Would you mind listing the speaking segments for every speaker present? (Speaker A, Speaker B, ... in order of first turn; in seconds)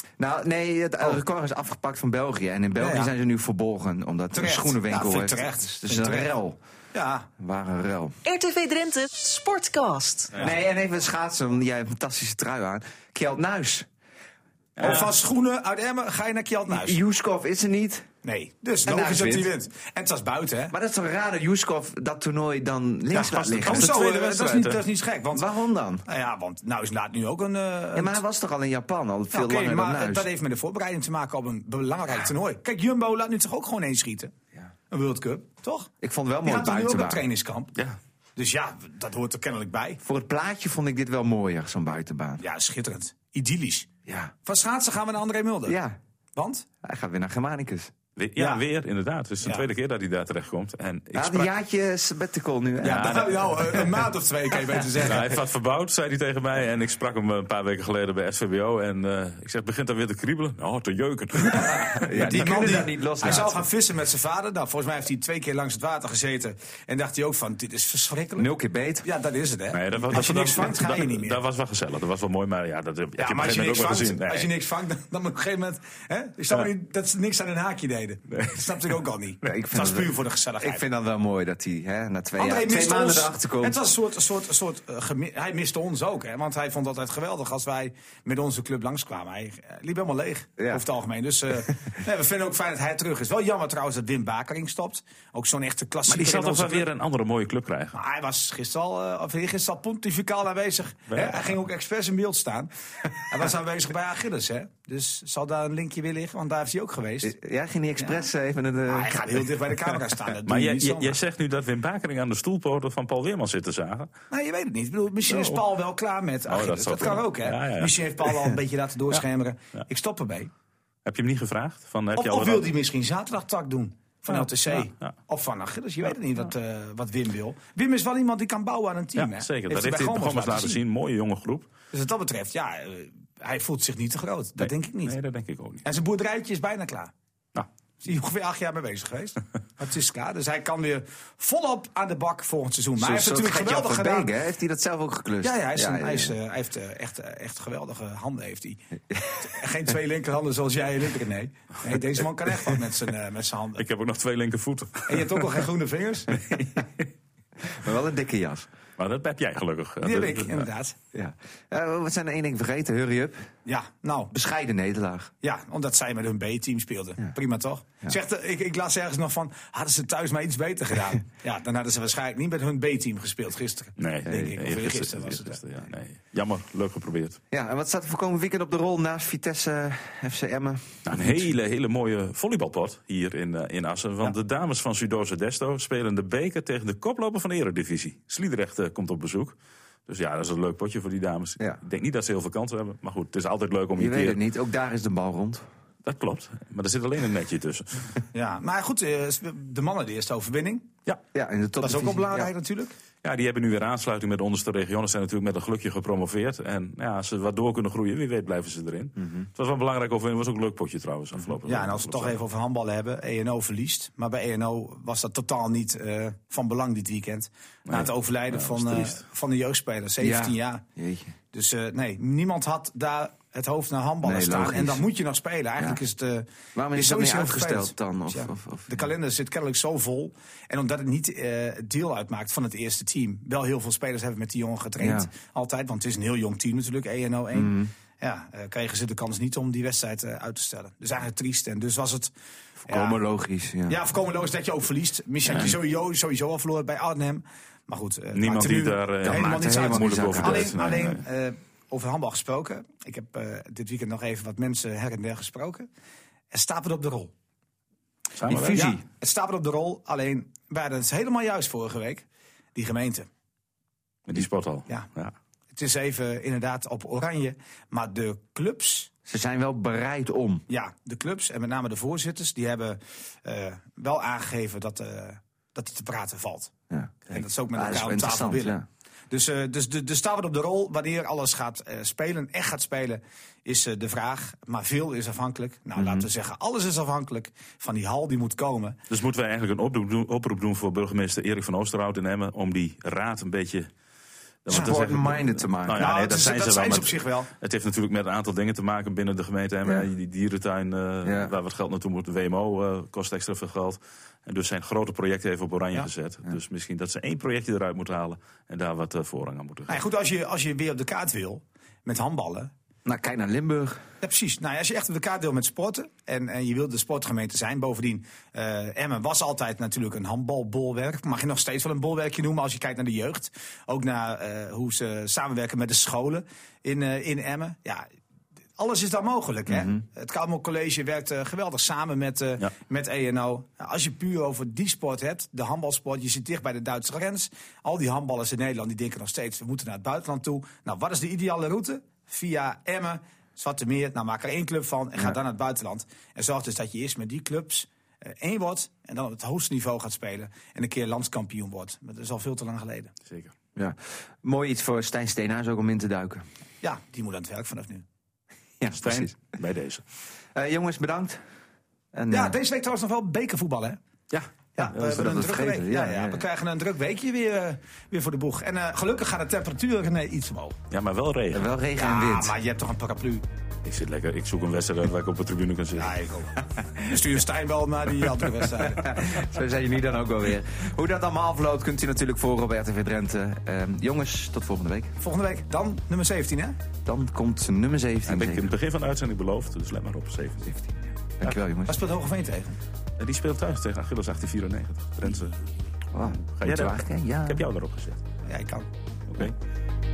Speaker A: 0.2-6.6, 7.4-8.2, 10.4-13.9, 16.7-18.1, 18.9-19.5, 20.7-24.0, 25.3-26.0, 27.9-30.3, 36.0-37.3, 40.0-42.4, 44.0-44.3, 45.6-46.0, 46.8-47.9, 51.1-53.2, 62.0-63.6, 68.4-69.1, 79.4-83.8, 90.6-90.8, 107.2-109.7, 143.0-146.3, 149.1-149.5, 157.6-158.7, 161.1-163.5, 164.3-165.3, 177.5-181.5, 194.0-195.6, 201.3-202.5, 209.2-209.5, 220.2-221.3, 224.2-225.0, 226.7-229.0, 235.0-235.3, 237.5-237.9, 242.8-244.0, 249.2-250.8, 258.5-259.0, 269.2-270.6, 276.9-278.9, 285.9-286.3, 294.7-296.1, 301.2-301.5, 313.0-314.0, 329.7-330.0, 353.8-356.4, 358.8-359.3, 360.5-361.4, 362.1-362.5, 364.8-366.4, 371.5-372.5, 378.9-385.2, 387.0-388.7, 390.6-392.0, 396.1-397.6
Speaker B: 2.8-3.1, 4.3-6.3, 6.9-7.3, 14.8-17.0, 18.2-20.7, 23.6-25.5, 26.1-28.2, 29.3-34.3, 34.9-35.9, 36.4-37.7, 38.4-40.0, 42.4-43.9, 44.4-45.8, 46.4-46.6, 48.4-48.6, 52.8-55.3, 61.9-68.5, 69.0-71.4, 73.2-80.8, 82.4-96.9, 97.9-107.3, 108.0-108.2, 108.9-111.2, 114.3-120.5, 122.1-130.8, 131.9-135.2, 135.8-137.1, 138.0-144.3, 145.4-148.8, 149.4-153.8, 155.1-156.4, 160.0-161.0, 163.7-164.3, 165.4-175.6, 198.3-200.9, 201.8-202.9, 211.7-220.8, 221.5-242.3, 242.8-243.2, 243.8-255.9, 256.5-257.3, 258.5-263.3, 265.7-269.1, 270.7-276.7, 277.3-289.0, 295.9-297.5, 309.9-312.7, 314.2-328.1, 328.8-353.1, 356.8-358.0, 362.3-364.0, 364.8-370.8, 372.0-373.4, 375.9-379.2, 385.2-386.8, 391.9-392.8, 398.4-398.9
Speaker C: 8.2-10.4
Speaker D: 14.8-15.1, 23.1-24.8, 48.2-51.5, 52.8-53.8, 55.0-62.6, 69.7-74.5, 78.3-78.8, 96.1-98.0, 101.1-101.6, 110.5-114.1, 115.3-115.6, 116.5-118.0, 121.0-122.7, 124.3-125.1, 129.2-131.7, 134.6-135.8, 153.8-155.6, 156.5-156.8, 159.0-160.7, 174.0-177.4, 181.1-189.5, 190.1-194.4, 196.0-198.2, 203.2-212.4, 217.9-219.2, 248.3-251.2, 258.4-258.9, 264.2-265.3, 289.1-293.9, 294.6-310.0, 353.3-353.5, 359.0-360.0, 370.9-371.7, 373.8-376.2, 388.3-390.7, 393.2-395.6, 396.2-398.2, 399.3-399.5